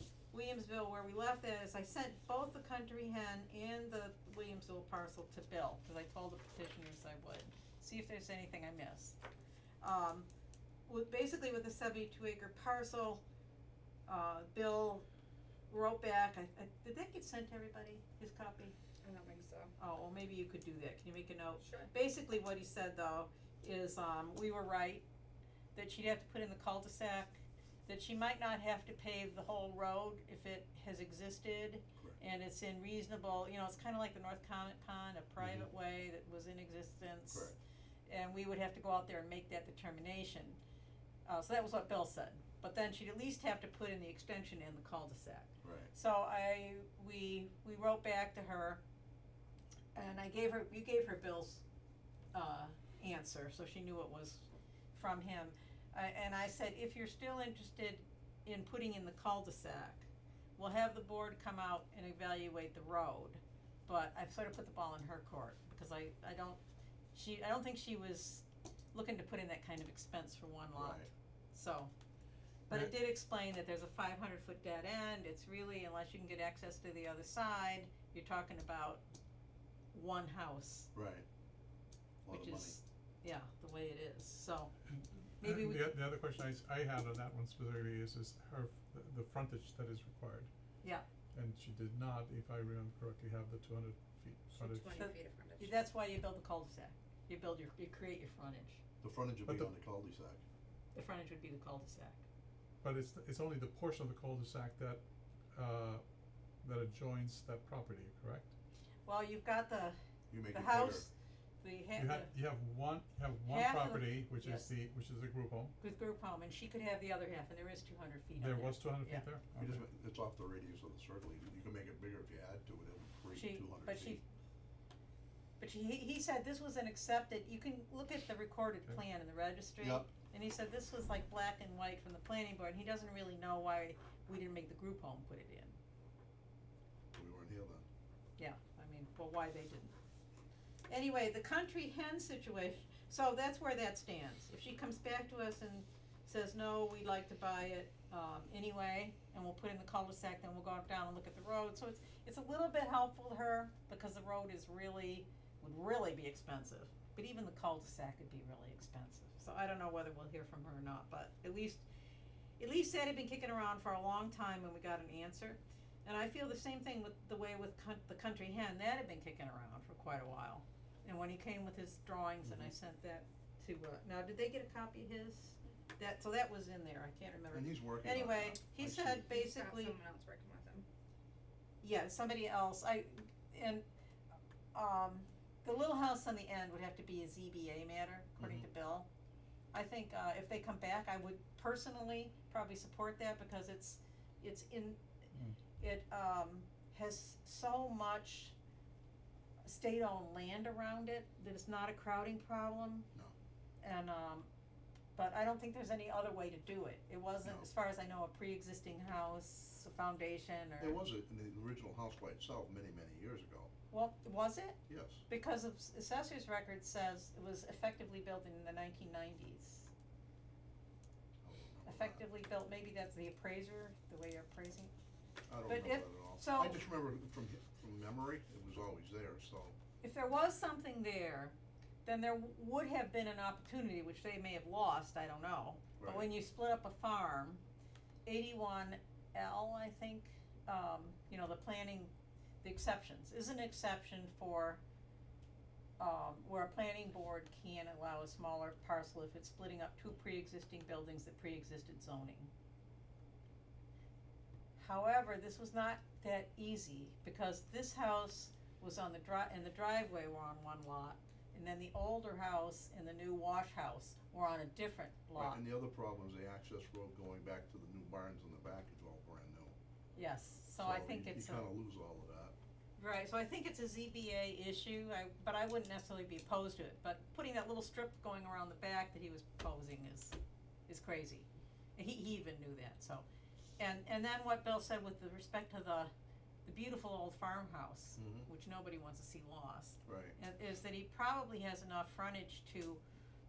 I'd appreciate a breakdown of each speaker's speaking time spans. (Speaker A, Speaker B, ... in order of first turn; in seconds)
Speaker A: 0.3-9.2, 9.8-10.3, 10.9-13.2, 14.1-15.1, 15.7-18.8, 19.8-25.1, 25.8-37.5, 38.1-40.6, 41.3-48.8, 50.0-51.6, 52.3-66.6, 67.1-71.9, 72.7-79.0, 79.9-80.9, 82.3-84.7, 85.4-85.9, 95.0-98.8, 100.9-102.2, 109.1-110.0, 110.5-112.3, 113.5-114.7, 115.8-119.2, 123.3-124.2, 125.6-135.8, 138.4-139.9, 140.9-161.8, 162.6-180.0, 181.8-183.8, 184.7-189.1, 189.7-195.0, 195.8-198.6, 199.6-203.1, 203.8-204.5, 205.2-211.0, 213.9-219.9, 221.8-224.9, 225.7-226.8, 230.0-237.6, 238.3-242.1, 242.6-244.8, 246.0-252.5, 254.8-265.6, 270.1-271.7, 273.0-280.4, 280.9-283.3, 283.8-286.1, 286.6-293.0
Speaker B: 19.0-19.7, 21.6-21.9, 94.6-95.8, 179.3-180.9
Speaker C: 35.4-35.7, 37.3-37.5, 45.6-45.9, 70.7-71.1, 80.9-81.2, 82.2-82.8, 99.0-100.4, 110.3-111.1, 119.6-124.2, 129.8-130.1, 137.1-137.9, 177.5-179.3, 188.4-188.7, 210.8-213.7, 214.9-215.2, 221.4-222.2, 225.5-229.8, 236.0-236.3, 265.4-269.8, 270.8-272.6, 288.2-288.5, 290.1-290.4
Speaker D: 84.9-90.5, 91.3-95.0, 99.5-99.7, 102.8-105.0, 105.5-106.0, 106.6-108.5, 112.0-115.7, 118.4-119.8